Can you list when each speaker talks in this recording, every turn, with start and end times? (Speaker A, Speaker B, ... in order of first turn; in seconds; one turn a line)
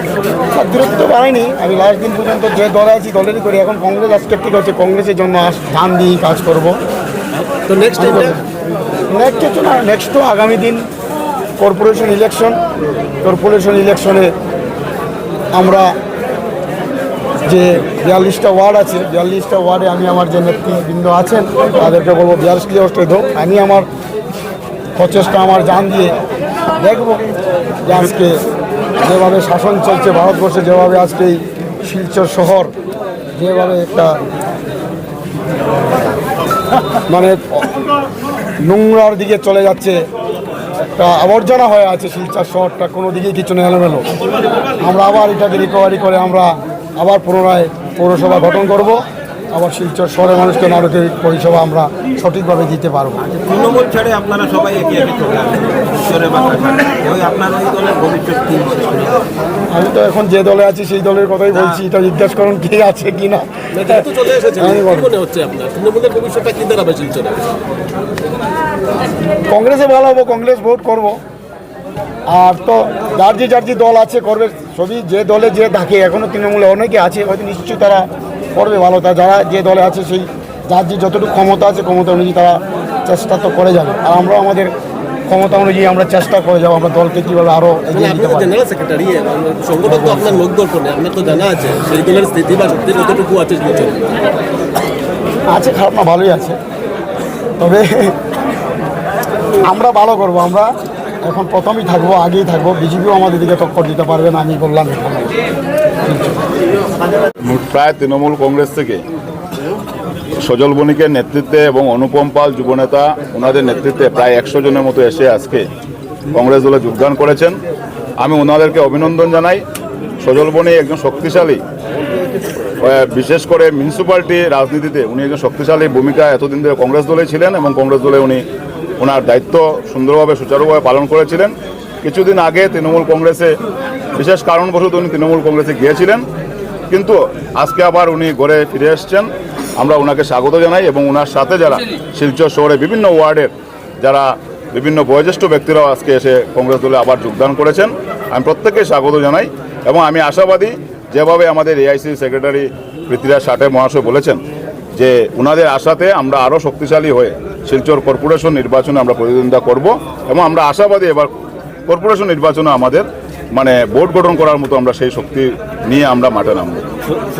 Speaker A: 0.5-6.8
Speaker B: 7.6-8.3
Speaker A: 8.0-8.4
Speaker A: 9.1-10.8
Speaker A: 11.6-12.6
Speaker A: 13.2-14.3
Speaker A: 15.5-15.9
Speaker A: 17.5-23.9
Speaker A: 24.9-26.1
Speaker A: 26.8-27.2
Speaker A: 27.8-28.4
Speaker A: 29.0-32.7
Speaker A: 33.4-34.1
Speaker A: 37.1-37.7
Speaker A: 38.6-40.0
Speaker A: 40.9-44.1
Speaker A: 44.8-53.2
Speaker C: 53.2-59.2
Speaker A: 59.7-64.0
Speaker C: 61.5-61.8
Speaker B: 63.7-67.5
Speaker A: 64.6-65.1
Speaker A: 69.5-71.2
Speaker A: 72.3-84.7
Speaker A: 85.3-88.5
Speaker B: 87.9-94.2
Speaker A: 89.9-90.4
Speaker A: 95.5-96.6
Speaker A: 97.6-98.1
Speaker A: 99.7-105.3
Speaker A: 106.0-106.3
Speaker D: 107.5-109.0
Speaker D: 110.4-115.7
Speaker D: 116.3-117.6
Speaker D: 118.2-119.6
Speaker D: 120.2-121.6
Speaker D: 122.8-128.4
Speaker D: 129.0-133.5
Speaker D: 134.1-136.2
Speaker D: 136.9-154.4
Speaker D: 154.9-161.3
Speaker D: 161.9-166.9